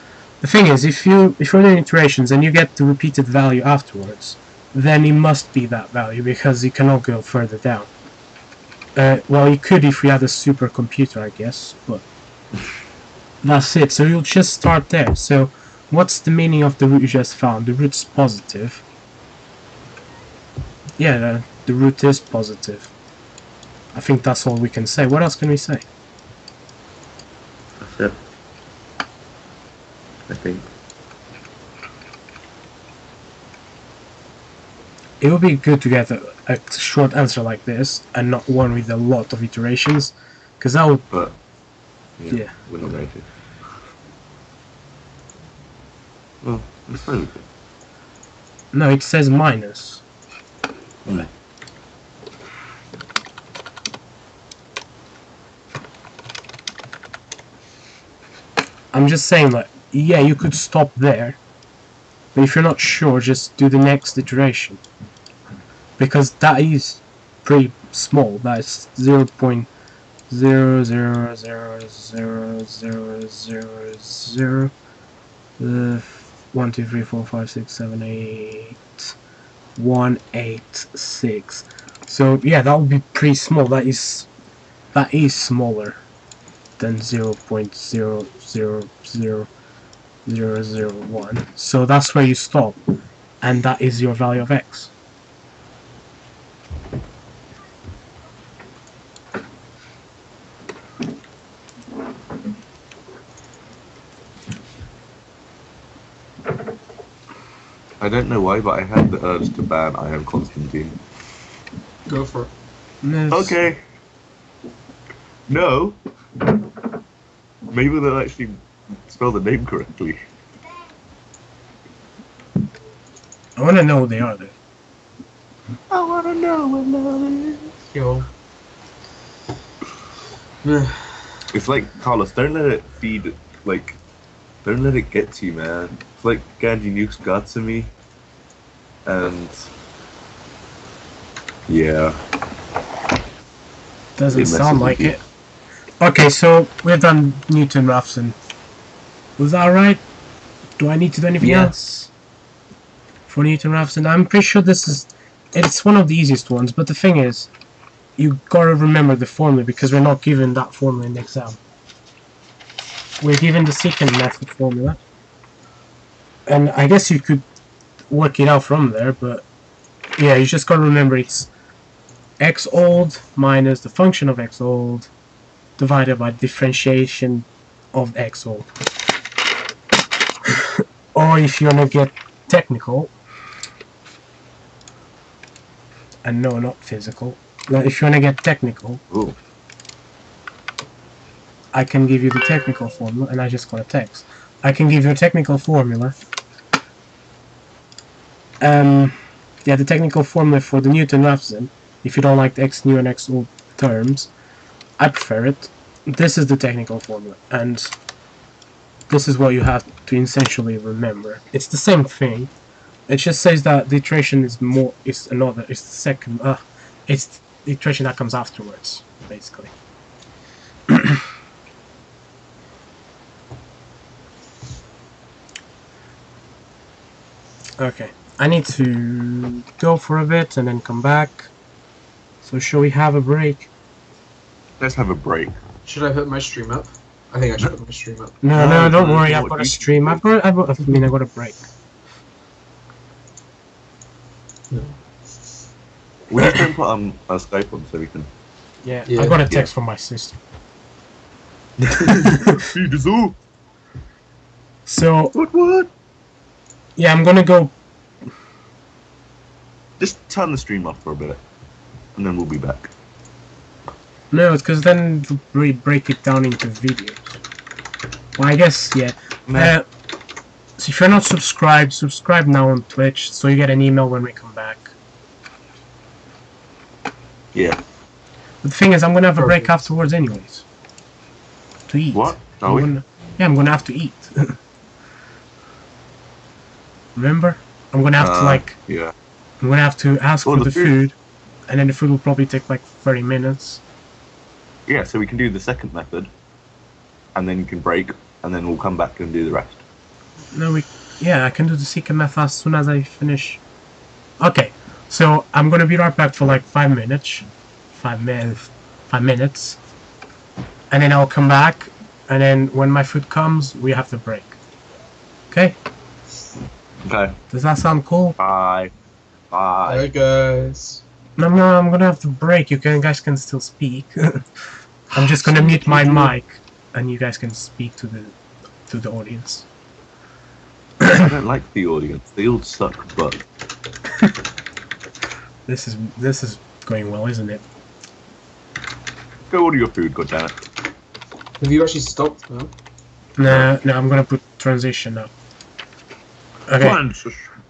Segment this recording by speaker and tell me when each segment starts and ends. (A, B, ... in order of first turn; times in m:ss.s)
0:00.4-0:07.9 A
0:09.0-0:12.0 A
0:13.4-0:18.8 A
0:21.0-0:22.9 A
0:23.9-0:25.8 A
0:27.8-0:28.2 B
0:30.3-0:30.7 B
0:35.2-0:41.0 A
0:41.1-0:41.4 B
0:42.2-0:43.3 B
0:42.3-0:42.6 A
0:46.4-0:47.4 B
0:48.7-0:50.0 A
0:58.9-1:01.4 A
1:02.4-1:04.8 A
1:06.0-1:09.7 A
1:10.3-1:14.7 A
1:15.6-1:19.2 A
1:19.8-1:24.3 A
1:24.9-1:26.0 A
1:26.8-1:29.5 A
1:30.3-1:32.8 A
1:33.4-1:34.9 A
1:48.0-1:51.0 B
1:52.1-1:52.5 C
1:53.0-1:53.6 A
1:53.3-1:53.8 B
1:55.5-1:56.0 B
1:57.7-2:00.2 B
2:03.6-2:04.6 A
2:05.9-2:07.8 B
2:07.9-2:08.3 C
2:10.6-2:11.2 C
2:11.5-2:14.0 B
2:14.6-2:17.9 B
2:19.1-2:19.7 B
2:21.7-2:22.2 B
2:24.2-2:25.2 A
2:24.3-2:25.2 B
2:26.0-2:28.4 A
2:29.4-2:30.0 A
2:30.8-2:32.1 A
2:31.4-2:31.7 B
2:33.3-2:37.5 A
2:38.2-2:41.6 A
2:43.2-2:45.0 A
2:46.5-2:47.5 A
2:48.1-2:49.4 A
2:50.2-2:51.5 A
2:52.4-2:55.1 A
2:55.8-2:58.7 A
3:00.5-3:03.1 A
3:06.2-3:09.0 A
3:09.1-3:09.4 B
3:11.7-3:16.2 A
3:18.6-3:24.3 A
3:25.0-3:28.0 A
3:29.1-3:32.5 A
3:33.1-3:39.7 A
3:40.9-3:41.2 A
3:47.8-3:51.5 A
3:52.4-3:53.7 A
3:54.8-3:55.6 B
3:55.8-3:58.4 C
3:58.4-4:01.6 A
3:58.5-4:00.2 B
4:04.7-4:05.0 C
4:06.3-4:08.3 B
4:08.8-4:10.4 A
4:09.1-4:09.4 C
4:12.1-4:12.6 A
4:12.5-4:13.4 B
4:14.9-4:15.4 A
4:15.3-4:15.9 B
4:17.0-4:17.7 A
4:20.0-4:21.4 B
4:22.2-4:22.9 B
4:24.3-4:27.4 A
4:28.4-4:29.9 A
4:29.5-4:29.8 B
4:30.8-4:34.9 A
4:37.5-4:37.8 B
4:38.6-4:40.7 A
4:39.4-4:39.9 C
4:41.9-4:44.6 A
4:42.1-4:42.9 B
4:47.2-4:48.8 A
4:48.2-4:49.1 B
4:49.6-4:51.2 A
4:50.4-4:51.0 B
4:51.7-4:53.8 A
4:54.9-4:56.3 B
4:57.4-4:59.8 B
5:00.5-5:03.6 A
5:04.4-5:09.8 A
5:10.9-5:14.6 A
5:15.5-5:15.8 A
5:17.0-5:17.4 B
5:17.5-5:18.4 A
5:18.4-5:18.9 B
5:19.5-5:20.1 B
5:19.8-5:21.0 C
5:21.4-5:24.4 A
5:25.1-5:28.4 A
5:25.5-5:26.3 C
5:28.9-5:29.7 A
5:31.0-5:31.3 A
5:31.1-5:33.4 B
5:35.7-5:37.6 A
5:39.5-5:40.6 B
5:41.6-5:42.7 C
5:43.4-5:45.3 A
5:43.4-5:43.7 B
5:46.7-5:47.0 A
5:46.8-5:47.5 B